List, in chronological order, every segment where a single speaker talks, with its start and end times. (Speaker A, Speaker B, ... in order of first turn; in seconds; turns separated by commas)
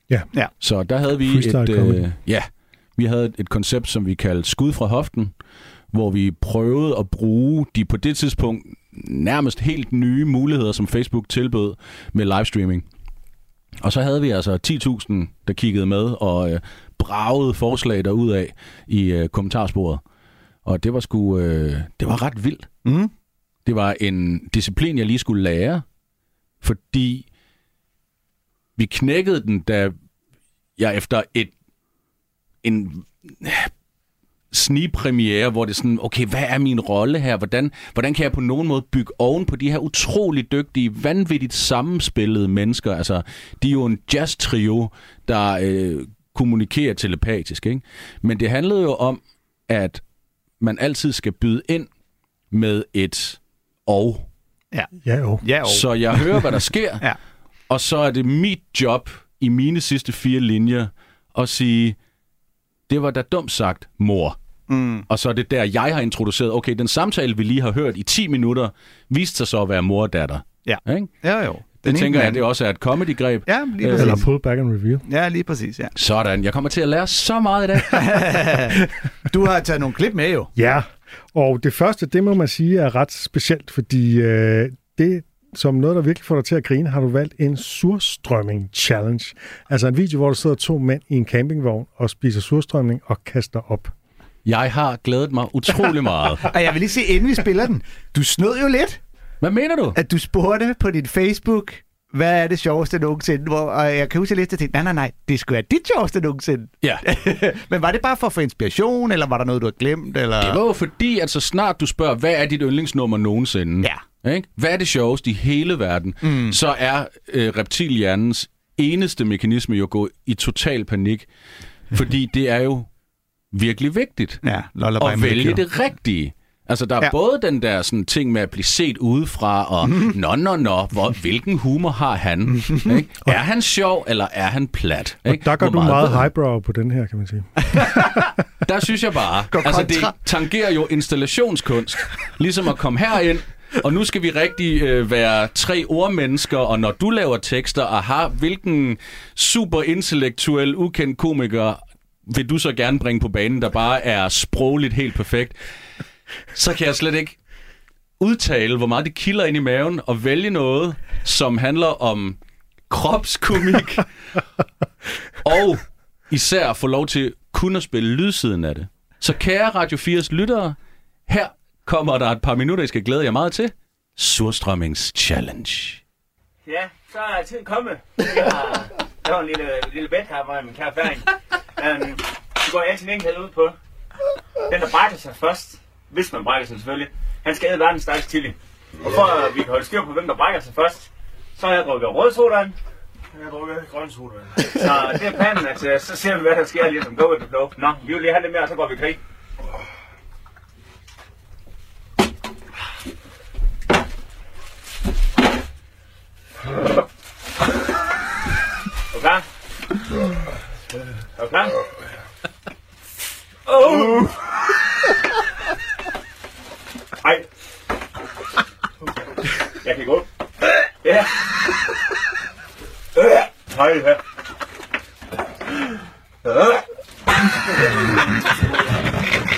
Speaker A: 0.6-5.3, Speaker B: 1.2-2.0, Speaker A: 5.9-12.8, Speaker A: 13.8-20.0, Speaker A: 20.6-22.7, Speaker C: 22.9-23.1, Speaker A: 23.6-25.8, Speaker A: 26.6-27.2, Speaker A: 28.8-29.9, Speaker A: 30.8-31.5, Speaker A: 32.6-33.7, Speaker A: 34.5-50.0, Speaker A: 50.6-51.9, Speaker A: 52.5-54.3, Speaker B: 55.0-55.4, Speaker C: 55.4-57.2, Speaker A: 55.7-57.1, Speaker A: 57.7-62.0, Speaker A: 62.9-64.4, Speaker C: 64.7-65.0, Speaker A: 65.1-71.1, Speaker C: 70.7-72.4, Speaker A: 71.8-74.2, Speaker C: 73.5-74.2, Speaker B: 73.9-75.0, Speaker C: 75.0-75.9, Speaker A: 76.0-78.4, Speaker C: 77.9-80.5, Speaker B: 80.6-93.9, Speaker A: 94.4-96.5, Speaker C: 96.5-99.0, Speaker A: 99.4-100.0, Speaker C: 99.9-110.6, Speaker A: 110.4-121.3, Speaker C: 116.2-116.6, Speaker A: 121.9-122.9, Speaker A: 123.5-124.4, Speaker C: 124.4-125.6, Speaker A: 125.0-136.3, Speaker C: 129.8-130.1, Speaker B: 135.2-138.2, Speaker A: 138.6-155.6, Speaker C: 139.5-140.1, Speaker A: 156.5-157.4, Speaker A: 158.2-162.4, Speaker A: 162.9-164.1, Speaker A: 165.4-170.8, Speaker A: 171.3-176.0, Speaker D: 176.6-183.8, Speaker D: 184.6-192.8, Speaker D: 193.3-199.2, Speaker D: 209.1-209.4, Speaker D: 211.4-211.8, Speaker D: 213.7-214.4, Speaker D: 219.8-220.2, Speaker D: 221.0-221.5, Speaker D: 223.2-224.2, Speaker D: 226.4-226.8